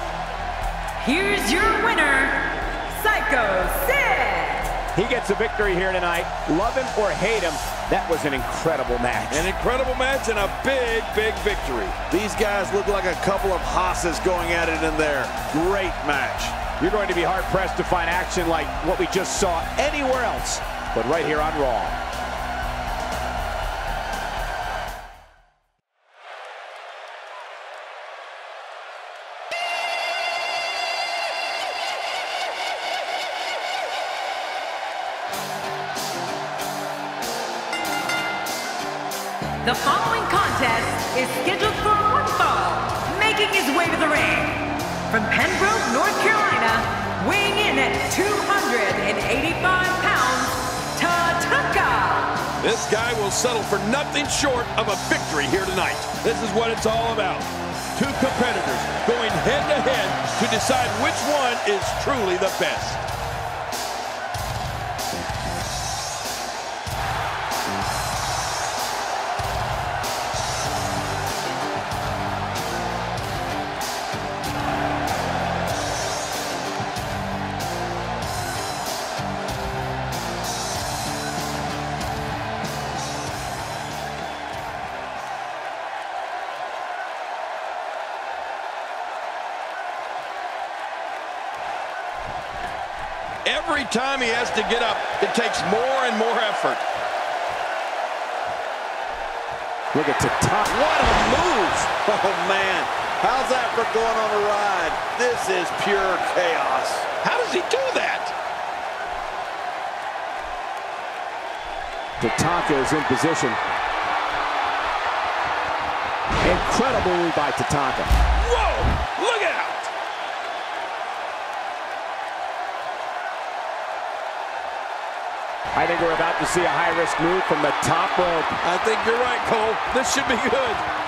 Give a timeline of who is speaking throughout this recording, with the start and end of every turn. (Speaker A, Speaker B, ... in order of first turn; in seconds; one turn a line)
Speaker A: 1.0-4.7
Speaker B: 5.0-9.5
Speaker C: 9.3-12.0
Speaker D: 12.1-16.6
Speaker B: 16.7-22.0
Speaker A: 39.6-52.4
Speaker C: 52.6-63.0
Speaker C: 93.5-96.9
Speaker B: 99.9-100.7
Speaker C: 100.7-101.9
Speaker D: 101.9-107.1
Speaker C: 107.2-108.3
Speaker B: 112.2-113.6
Speaker B: 116.4-118.1
Speaker C: 118.3-119.9
Speaker B: 125.8-128.6
Speaker C: 128.6-130.8